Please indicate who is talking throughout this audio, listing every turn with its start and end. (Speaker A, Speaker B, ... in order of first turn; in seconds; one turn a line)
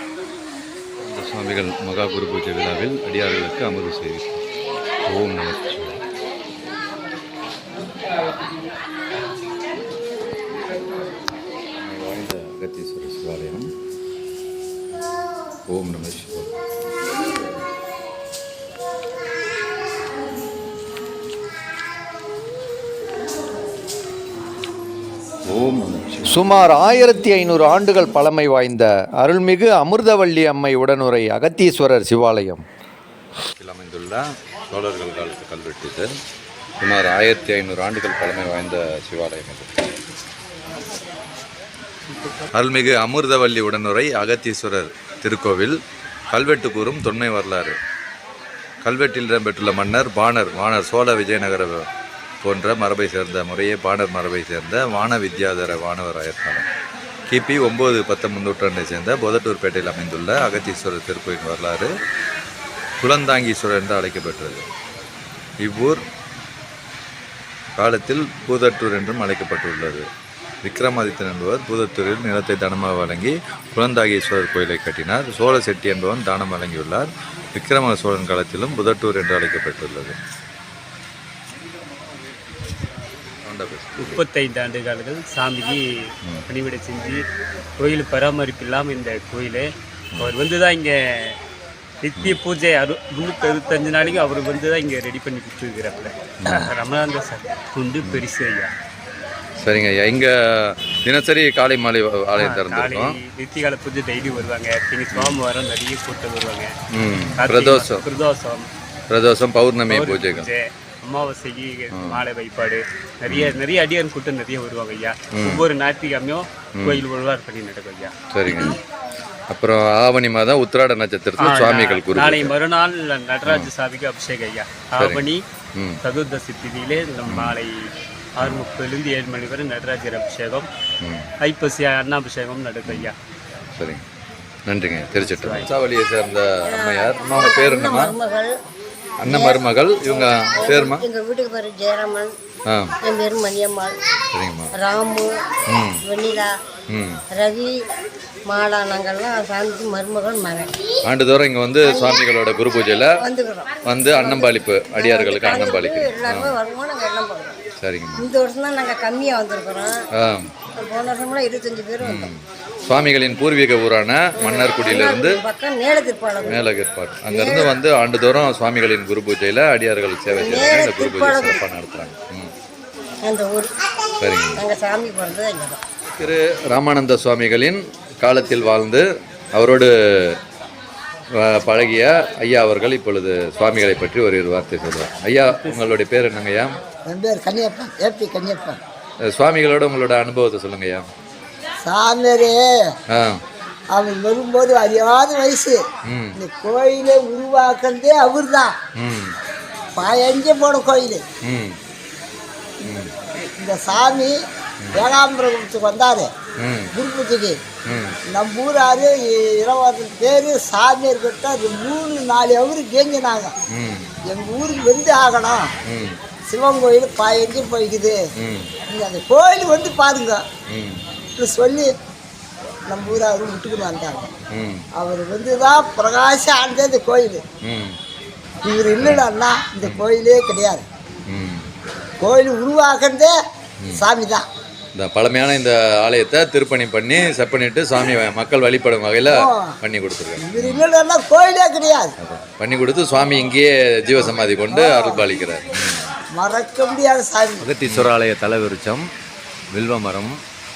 Speaker A: 1.0-4.4
Speaker A: 5.1-6.0
Speaker A: 11.8-13.7
Speaker A: 15.7-16.5
Speaker A: 25.5-26.3
Speaker B: 26.3-32.6
Speaker A: 33.6-36.1
Speaker A: 36.8-39.7
Speaker A: 42.5-45.8
Speaker A: 46.3-47.8
Speaker A: 48.8-51.9
Speaker A: 52.4-56.6
Speaker A: 57.3-61.9
Speaker A: 63.0-64.7
Speaker A: 65.6-66.0
Speaker A: 67.8-70.0
Speaker A: 70.6-80.2
Speaker A: 83.4-84.2
Speaker C: 84.0-87.2
Speaker C: 87.8-91.4
Speaker C: 92.0-98.7
Speaker A: 96.4-96.7
Speaker A: 99.6-103.2
Speaker C: 102.4-106.7
Speaker A: 105.1-105.4
Speaker A: 106.9-108.0
Speaker C: 107.4-108.7
Speaker A: 109.1-110.5
Speaker C: 109.9-118.1
Speaker A: 111.9-112.2
Speaker A: 113.3-113.6
Speaker A: 115.3-115.7
Speaker A: 116.8-117.0
Speaker A: 118.3-118.8
Speaker A: 119.5-122.5
Speaker C: 121.4-125.4
Speaker C: 126.0-130.7
Speaker A: 127.3-127.6
Speaker A: 131.0-131.3
Speaker C: 131.4-133.2
Speaker A: 133.8-134.0
Speaker A: 134.7-138.2
Speaker C: 135.3-135.7
Speaker D: 136.7-138.5
Speaker A: 139.2-141.1
Speaker D: 139.2-142.3
Speaker A: 142.7-142.9
Speaker D: 143.0-143.9
Speaker A: 144.3-144.7
Speaker D: 144.7-145.3
Speaker A: 145.7-146.0
Speaker D: 146.0-146.5
Speaker A: 146.9-147.2
Speaker D: 147.3-147.8
Speaker D: 148.5-150.7
Speaker A: 151.1-153.2
Speaker D: 151.8-152.2
Speaker D: 153.2-157.6
Speaker A: 153.8-156.6
Speaker A: 157.8-158.3
Speaker D: 158.2-160.0
Speaker A: 160.2-160.5
Speaker D: 160.7-162.3
Speaker A: 162.0-165.4
Speaker D: 164.4-166.7
Speaker A: 166.4-172.5
Speaker D: 167.3-167.7
Speaker D: 170.3-171.7
Speaker D: 173.2-173.7
Speaker A: 174.2-174.6
Speaker D: 174.5-175.8
Speaker A: 176.2-180.4
Speaker A: 181.4-186.8
Speaker E: 187.1-188.8
Speaker A: 189.2-191.1
Speaker E: 191.8-192.6
Speaker A: 193.1-193.4
Speaker E: 193.9-195.8
Speaker A: 196.1-196.4
Speaker E: 196.3-198.7
Speaker A: 199.0-199.4
Speaker E: 200.0-201.2
Speaker A: 201.4-201.8
Speaker A: 202.9-203.1
Speaker E: 203.6-204.3
Speaker A: 204.8-205.1
Speaker E: 204.9-206.3
Speaker A: 206.6-206.9
Speaker E: 206.9-207.6
Speaker A: 207.9-208.2
Speaker E: 208.3-213.6
Speaker A: 213.7-214.1
Speaker E: 214.3-215.7
Speaker A: 215.9-216.2
Speaker E: 216.5-218.2
Speaker A: 218.4-218.7
Speaker E: 218.9-220.4
Speaker A: 220.7-221.0
Speaker E: 221.4-221.9
Speaker E: 222.9-224.3
Speaker A: 224.5-224.9
Speaker E: 225.0-227.4
Speaker A: 227.6-228.0
Speaker E: 228.6-230.8
Speaker A: 229.0-229.3
Speaker A: 231.3-231.7
Speaker E: 232.2-233.3
Speaker E: 233.9-234.4
Speaker A: 234.9-240.8
Speaker E: 239.3-239.8
Speaker E: 240.4-242.1
Speaker A: 242.2-246.1
Speaker E: 244.7-245.3
Speaker E: 246.3-247.7
Speaker A: 247.6-249.1
Speaker A: 249.7-250.4